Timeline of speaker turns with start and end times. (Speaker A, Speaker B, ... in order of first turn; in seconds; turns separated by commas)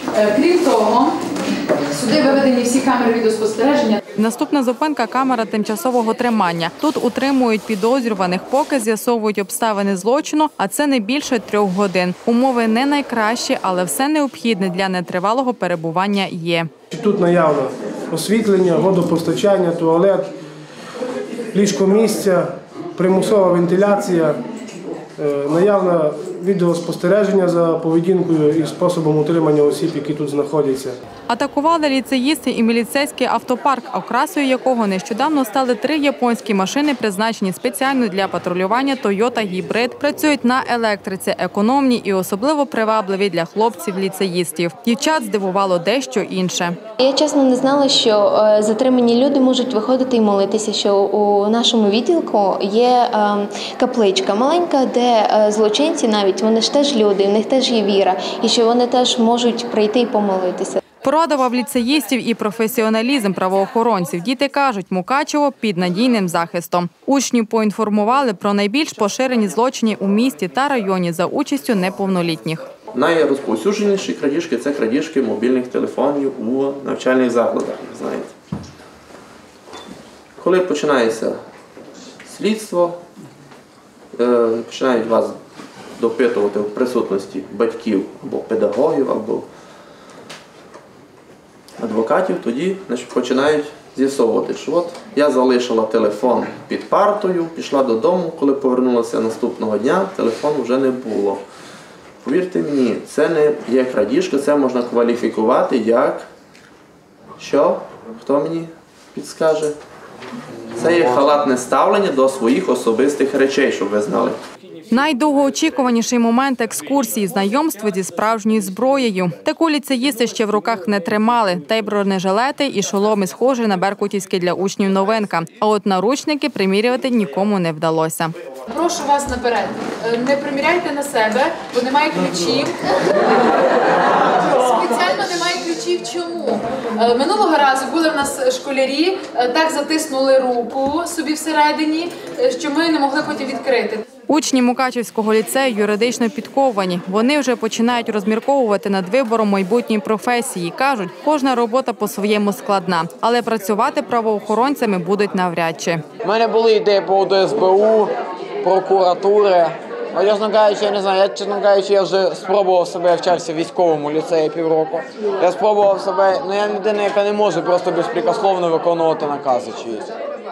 Speaker A: 0.1-1.2, Speaker A: 1.9-4.0, Speaker B: 4.2-16.7, Speaker C: 16.9-20.3, Speaker C: 21.5-24.4, Speaker C: 25.2-30.9, Speaker B: 31.3-46.8, Speaker D: 47.0-60.8, Speaker B: 61.0-72.6, Speaker E: 72.9-78.3, Speaker E: 80.4-81.4, Speaker E: 82.2-83.0, Speaker E: 84.1-85.4, Speaker E: 86.0-89.5, Speaker E: 91.8-101.4, Speaker E: 102.2-106.3, Speaker E: 107.4-109.8, Speaker E: 110.8-114.4, Speaker B: 114.9-128.3, Speaker A: 128.7-144.0, Speaker B: 144.3-156.0, Speaker F: 156.2-158.1, Speaker F: 158.6-170.1